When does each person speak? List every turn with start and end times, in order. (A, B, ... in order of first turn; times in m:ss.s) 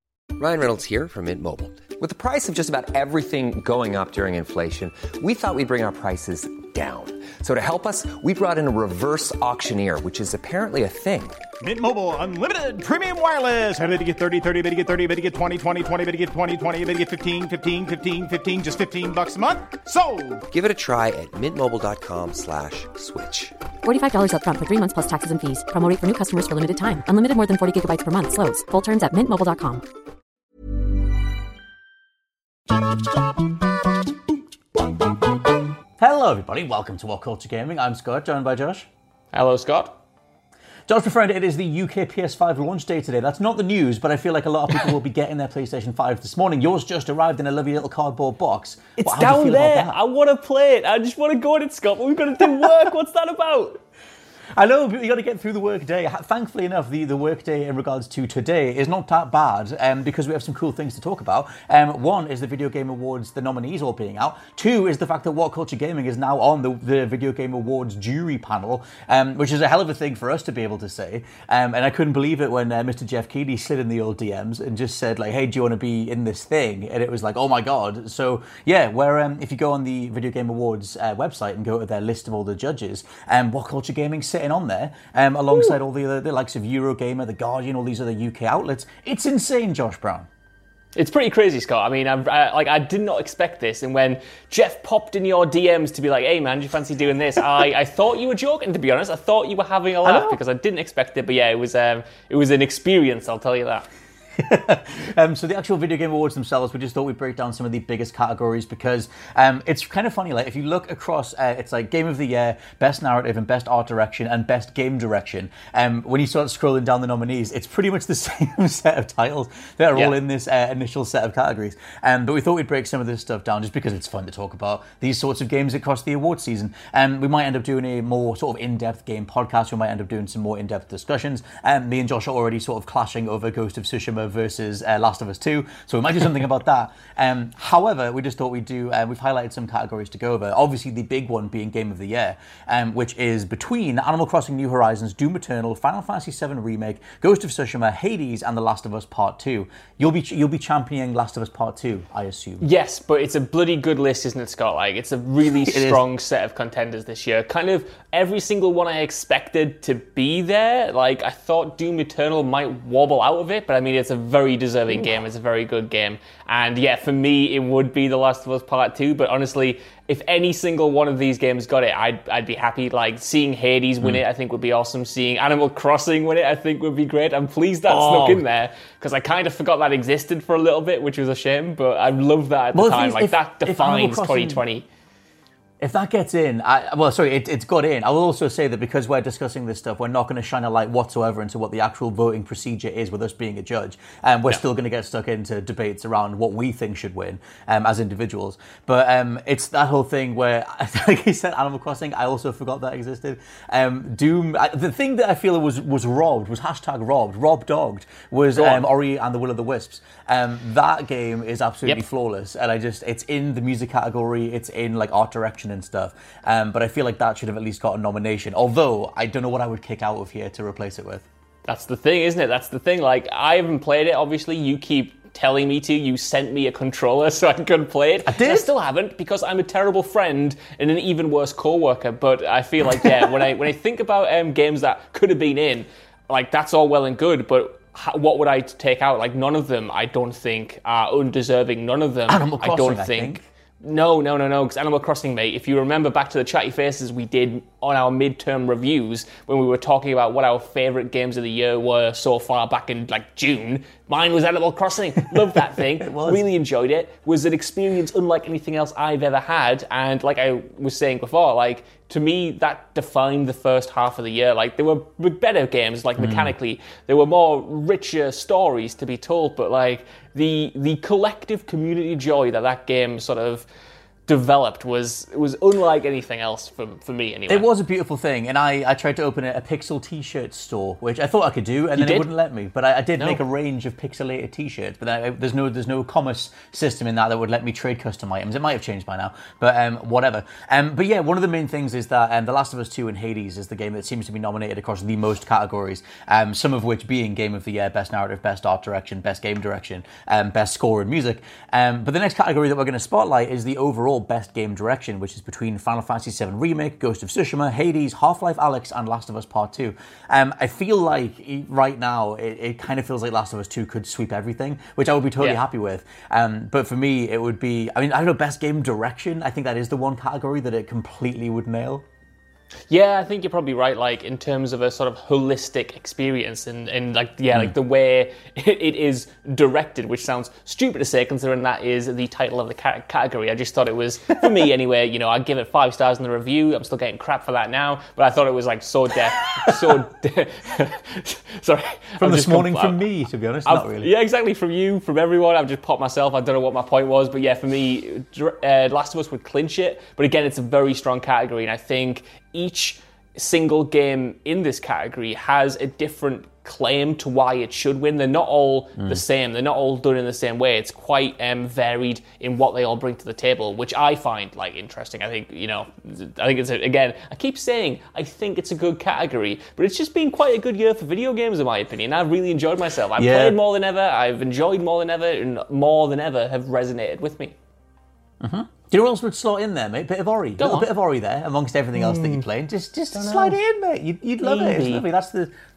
0:00.4-0:11.4 A
0:11.6-0:20.4 B
0:20.5-0:23.5 A
0:23.8-0:29.8 C
0:36.0-0:38.9 D
0:39.3-0:40.0 E
0:40.9-0:50.0 D
0:49.0-0:53.8 E
0:54.6-1:30.3 D
1:31.0-1:43.8 E
1:40.0-1:40.4 D
1:44.4-2:32.6 D
2:32.6-3:04.8 E
2:35.5-2:36.0 D
2:57.9-2:58.4 D
3:02.7-3:04.6 D
3:05.8-3:41.2 D
3:28.5-3:28.9 E
3:41.6-4:33.7 E
3:48.2-3:48.7 D
4:02.3-4:03.5 D
4:16.0-4:16.4 D
4:26.2-4:26.5 D
4:34.3-4:37.7 E
4:37.5-5:22.0 D
4:42.0-4:42.3 E
5:22.9-5:43.0 E
5:42.2-5:44.1 D
5:43.6-6:17.5 E
6:13.2-6:13.6 D
6:18.4-6:25.5 D
6:20.6-6:20.9 E
6:22.0-6:22.4 E
6:23.1-6:23.6 E
6:24.4-6:25.0 E